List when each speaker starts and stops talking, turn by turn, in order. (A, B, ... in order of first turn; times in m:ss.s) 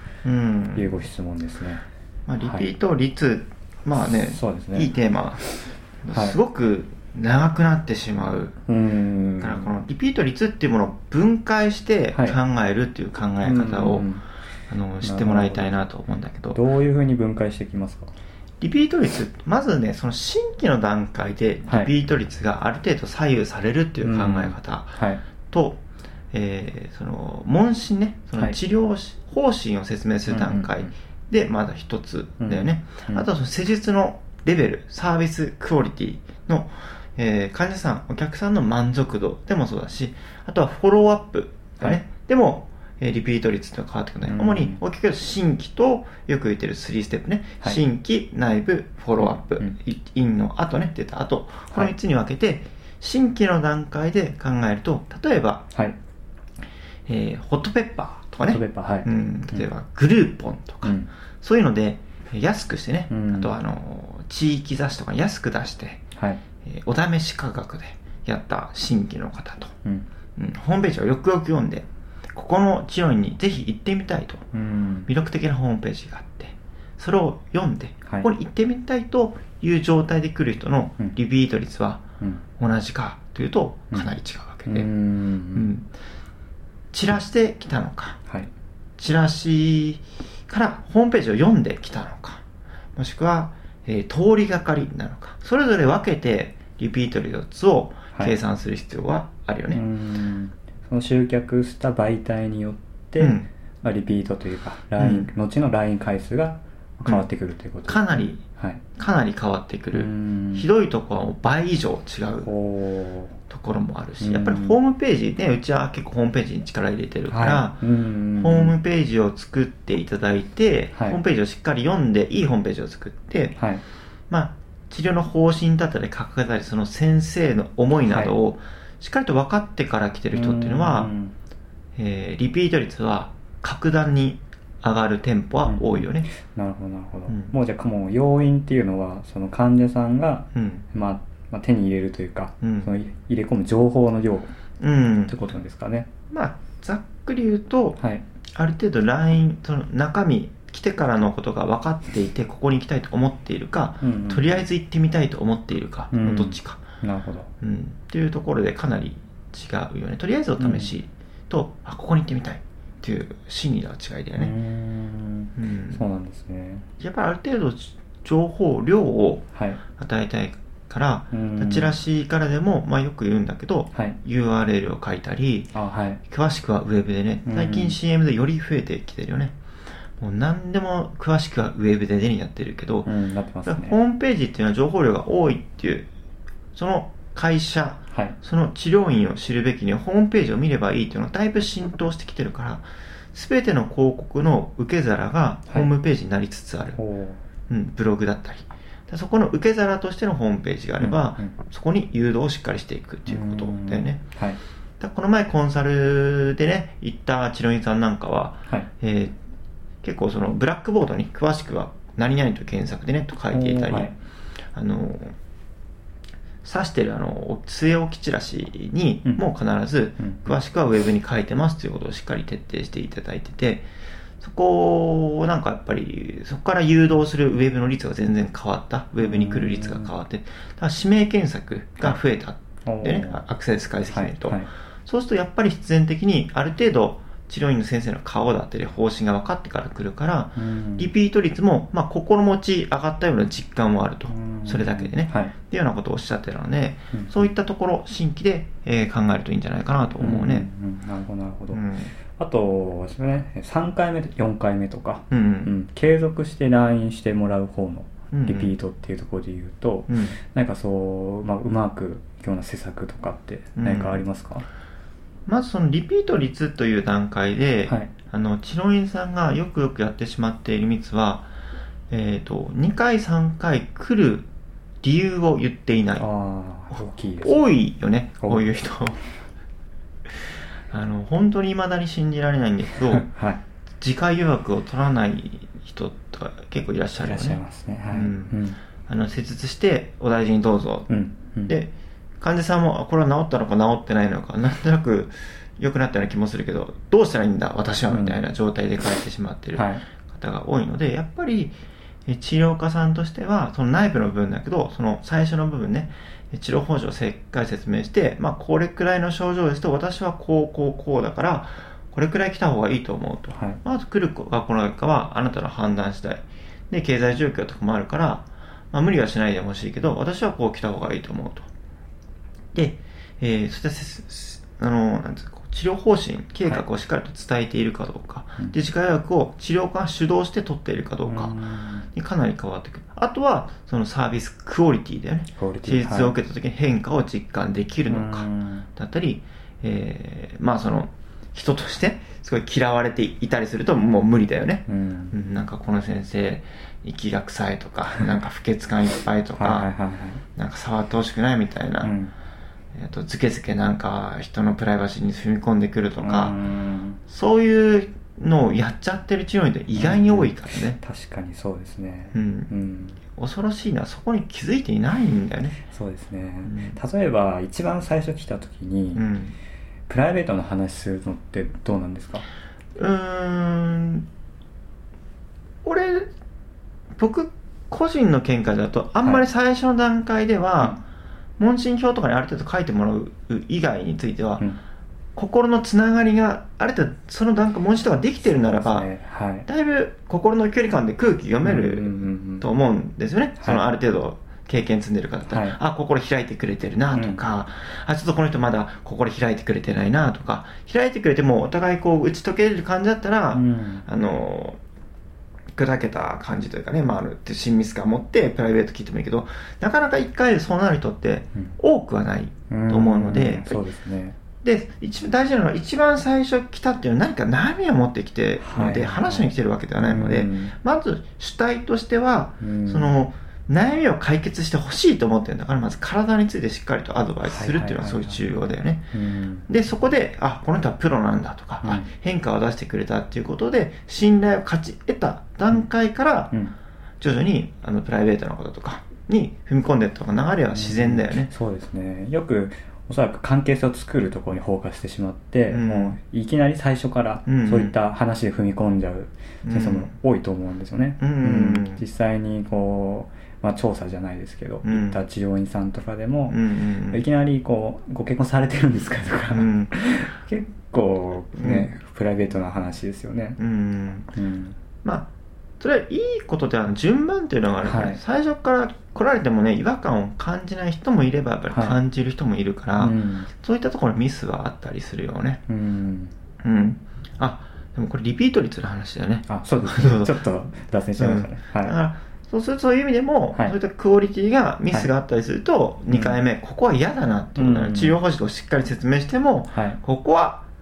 0:00.2-0:01.0 A
0:00.7-0:01.8 B
0:02.3-0:08.6 A
0:02.4-0:02.7 B
0:04.1-0:04.9 B
0:06.1-0:06.4 B
0:08.7-0:09.7 B
0:09.4-0:14.1 A
0:13.4-0:14.2 B
0:14.7-0:16.6 A
0:15.0-0:15.7 B
0:16.5-0:18.1 B
0:18.6-0:25.0 A
0:24.0-0:25.2 B
0:25.5-0:55.7 A
0:30.3-0:30.9 B
0:32.4-0:33.2 B
0:44.2-0:44.8 B
0:49.2-0:49.7 B
0:55.7-0:56.0 B
0:57.0-1:06.0 A
0:58.4-0:59.6 B
1:00.8-1:01.1 B
1:03.1-1:03.5 B
1:06.1-1:06.4 B
1:06.6-1:09.7 A
1:10.4-1:14.4 A
1:14.5-1:15.1 B
1:15.1-1:22.0 A
1:22.6-1:24.9 A
1:23.9-1:25.7 B
1:25.5-1:25.9 A
1:26.9-1:28.2 A
1:29.0-1:32.4 A
1:33.0-1:39.8 A
1:39.7-1:48.8 B
1:43.2-1:43.5 A
1:45.0-1:45.3 A
1:47.0-1:47.2 A
1:47.8-1:48.4 A
1:49.0-1:52.5 A
1:49.9-1:50.7 B
1:52.4-1:53.4 B
1:53.5-1:57.8 A
1:54.2-1:54.8 B
1:57.3-1:58.7 B
1:58.4-2:03.6 A
2:03.6-2:03.8 B
2:04.3-2:11.1 A
2:08.0-2:08.3 B
2:10.3-2:11.3 B
2:12.0-2:16.3 A
2:15.6-2:24.5 B
2:17.3-2:17.5 A
2:20.5-2:20.8 A
2:22.6-2:22.9 A
2:24.8-2:25.4 A
2:25.2-2:26.1 B
2:26.3-2:28.0 A
2:28.6-2:36.8 A
2:34.0-2:34.5 B
2:36.1-2:37.5 B
2:37.6-2:44.5 A
2:40.6-2:40.9 B
2:44.4-2:46.9 B
2:45.6-2:46.0 A
2:47.0-2:49.5 A
2:49.5-2:49.8 B
2:50.0-2:55.7 A
2:51.3-2:51.9 B
2:55.7-2:56.2 B
2:56.3-2:59.5 A
2:57.4-2:58.0 B
3:00.2-3:03.1 A
3:03.0-3:04.0 B
3:03.6-3:06.1 A
3:06.7-3:17.0 A
3:08.1-3:08.4 B
3:17.0-3:17.4 B
3:17.7-3:24.2 A
3:21.0-3:21.5 B
3:23.3-3:24.6 B
3:25.0-3:29.3 A
3:30.0-3:34.1 A
3:33.5-3:34.1 B
3:34.7-3:35.3 A
3:36.6-3:43.9 A
3:44.4-4:10.7 A
3:49.2-3:50.1 B
3:52.8-3:53.4 B
3:54.1-3:54.7 B
4:00.6-4:01.1 B
4:04.3-4:05.5 B
4:07.1-4:07.5 B
4:10.2-4:24.6 B
4:11.7-4:12.1 A
4:15.3-4:15.7 A
4:18.3-4:18.7 A
4:20.1-4:20.4 A
4:23.8-4:24.2 A
4:25.5-4:31.5 A
4:27.8-4:28.1 B
4:32.1-4:34.5 A
4:35.0-4:36.2 A
4:36.2-4:37.6 B
4:37.4-4:39.2 A
4:40.9-4:43.3 A
4:43.1-4:43.6 B
4:44.0-4:47.6 A
4:47.2-4:48.8 B
4:48.1-5:21.7 A
4:51.1-4:51.7 B
4:58.1-4:58.4 B
4:59.7-5:00.0 B
5:13.5-5:13.8 B
5:22.7-5:31.6 A
5:31.2-5:32.1 B
5:32.1-5:49.9 A
5:35.6-5:36.4 B
5:38.1-5:38.9 B
5:44.9-5:45.3 B
5:49.6-5:50.4 B
5:50.6-5:52.1 A
5:52.0-5:52.3 B
5:52.9-5:56.6 A
5:56.2-5:57.2 B
5:57.3-6:01.0 A
5:59.9-6:03.2 B
6:02.3-6:02.7 A
6:03.4-6:05.8 A
6:05.8-6:09.3 B
6:06.6-6:07.0 A
6:09.1-6:09.5 A
6:10.1-6:12.4 B
6:13.0-6:14.2 A
6:15.8-6:16.3 A
6:17.2-6:21.0 A
6:21.6-6:24.6 A
6:25.4-6:29.1 A
6:28.8-6:29.6 B
6:29.6-6:44.8 A
6:31.6-6:32.7 B
6:35.5-6:35.8 B
6:37.1-6:37.4 B
6:43.5-6:44.0 B
6:45.7-6:53.8 A
6:52.7-6:54.4 B
6:54.6-7:09.1 A
6:58.6-6:59.5 B
7:00.0-7:00.7 B
7:02.6-7:03.1 B
7:07.4-7:08.4 B
7:09.1-7:09.7 B
7:09.7-7:16.5 A
7:11.8-7:12.1 B
7:17.2-7:21.5 A
7:20.7-7:36.6 B
7:25.7-7:26.2 A
7:27.4-7:27.9 A
7:29.6-7:30.1 A
7:31.2-7:32.0 A
7:34.8-7:35.2 A
7:36.5-7:37.2 A
7:37.1-7:43.6 B
7:39.5-7:39.9 A
7:41.6-7:41.9 A
7:43.6-7:44.3 A
7:44.3-7:44.8 B
7:45.0-7:45.3 A
7:45.8-7:55.6 A
7:47.8-7:48.2 B
7:51.7-7:52.0 B
7:53.0-7:53.5 B
7:55.7-7:56.3 B
7:56.6-8:00.4 A
7:59.5-8:02.0 B
8:01.2-8:10.6 A
8:06.1-8:06.4 B
8:07.6-8:08.2 B
8:09.7-8:10.0 B